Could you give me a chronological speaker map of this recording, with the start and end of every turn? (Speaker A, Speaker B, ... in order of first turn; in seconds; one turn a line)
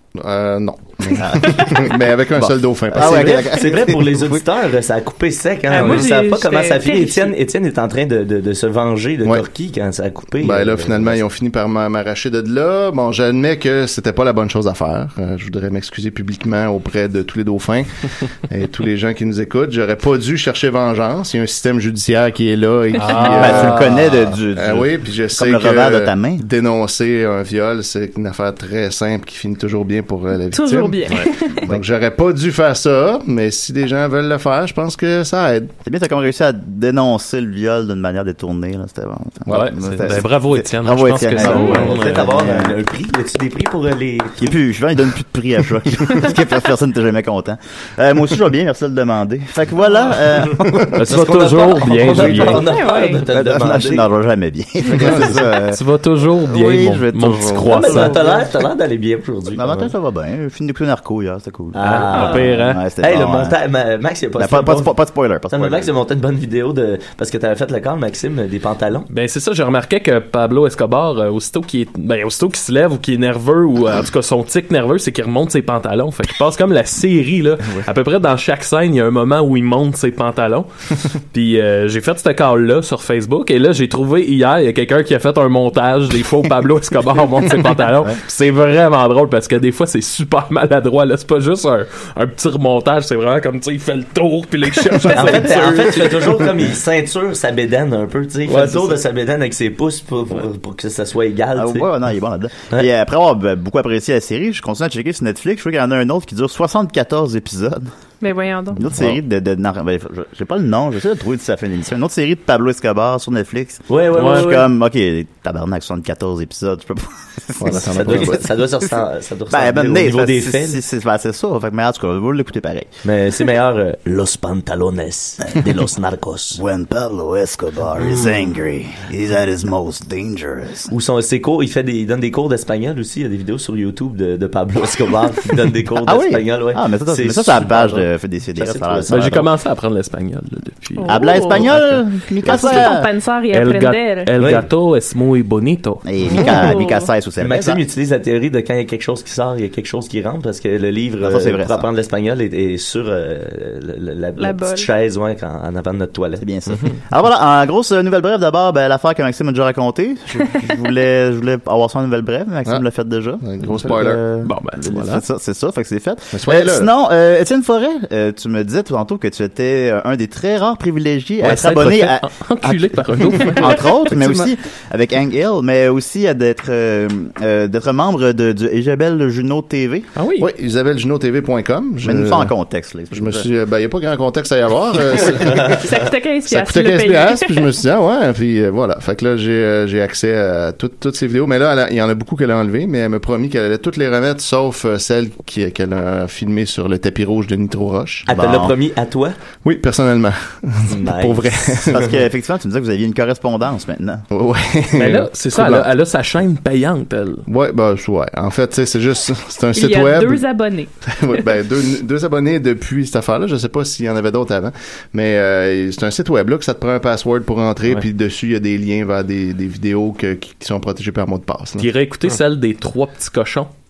Speaker A: 0.1-3.6
Speaker B: 1.2-4.5
Speaker C: 1.4-1.8
Speaker D: 2.9-11.2
Speaker C: 5.7-7.3
Speaker A: 10.4-35.8
Speaker E: 22.9-23.9
Speaker C: 23.1-23.6
Speaker B: 23.4-26.4
Speaker C: 30.5-31.6
Speaker B: 35.9-42.8
Speaker E: 39.5-42.4
Speaker C: 41.4-41.9
Speaker D: 41.6-44.5
Speaker B: 44.4-50.9
Speaker A: 50.5-51.0
Speaker D: 50.8-54.1
Speaker E: 50.9-52.7
Speaker B: 52.1-52.6
Speaker C: 52.6-53.2
Speaker B: 53.2-55.8
Speaker A: 55.0-55.4
Speaker E: 55.2-58.2
Speaker B: 56.4-58.5
Speaker D: 57.7-59.9
Speaker B: 59.5-63.5
Speaker D: 61.7-65.0
Speaker E: 61.8-62.8
Speaker C: 62.2-62.5
Speaker B: 64.4-65.9
Speaker D: 65.5-69.1
Speaker E: 69.1-80.7
Speaker E: 81.3-96.5
Speaker C: 94.9-95.3
Speaker D: 95.0-101.9
Speaker B: 98.5-99.0
Speaker B: 101.5-107.9
Speaker C: 108.2-108.8
Speaker B: 108.7-118.5
Speaker A: 108.9-109.2
Speaker D: 113.9-114.7
Speaker E: 114.1-114.5
Speaker A: 117.6-118.4
Speaker D: 117.7-120.8
Speaker B: 119.5-122.9
Speaker D: 123.0-126.6
Speaker B: 125.5-125.8
Speaker B: 126.5-130.9
Speaker D: 130.9-139.4
Speaker B: 136.0-139.5
Speaker E: 139.1-142.0
Speaker C: 141.0-141.8
Speaker B: 141.1-143.1
Speaker C: 142.4-144.3
Speaker E: 142.5-142.9
Speaker E: 143.5-146.4
Speaker D: 144.4-144.7
Speaker B: 146.0-147.8
Speaker C: 146.3-147.1
Speaker D: 147.4-156.5
Speaker B: 151.2-151.9
Speaker C: 154.4-154.9
Speaker B: 156.4-180.1
Speaker A: 163.4-164.2
Speaker E: 164.4-165.2
Speaker A: 166.3-166.9
Speaker E: 171.4-173.9
Speaker A: 173.4-174.5
Speaker E: 180.2-180.5
Speaker A: 180.4-182.5
Speaker B: 182.0-183.5
Speaker A: 183.1-185.9
Speaker C: 185.7-187.7
Speaker A: 186.5-198.3
Speaker D: 198.3-199.4
Speaker B: 198.3-198.8
Speaker A: 199.6-202.1
Speaker D: 200.9-201.9
Speaker B: 201.9-204.2
Speaker A: 204.3-205.9
Speaker E: 205.0-207.4
Speaker A: 207.5-210.5
Speaker C: 209.8-210.9
Speaker A: 211.0-221.9
Speaker E: 221.8-223.7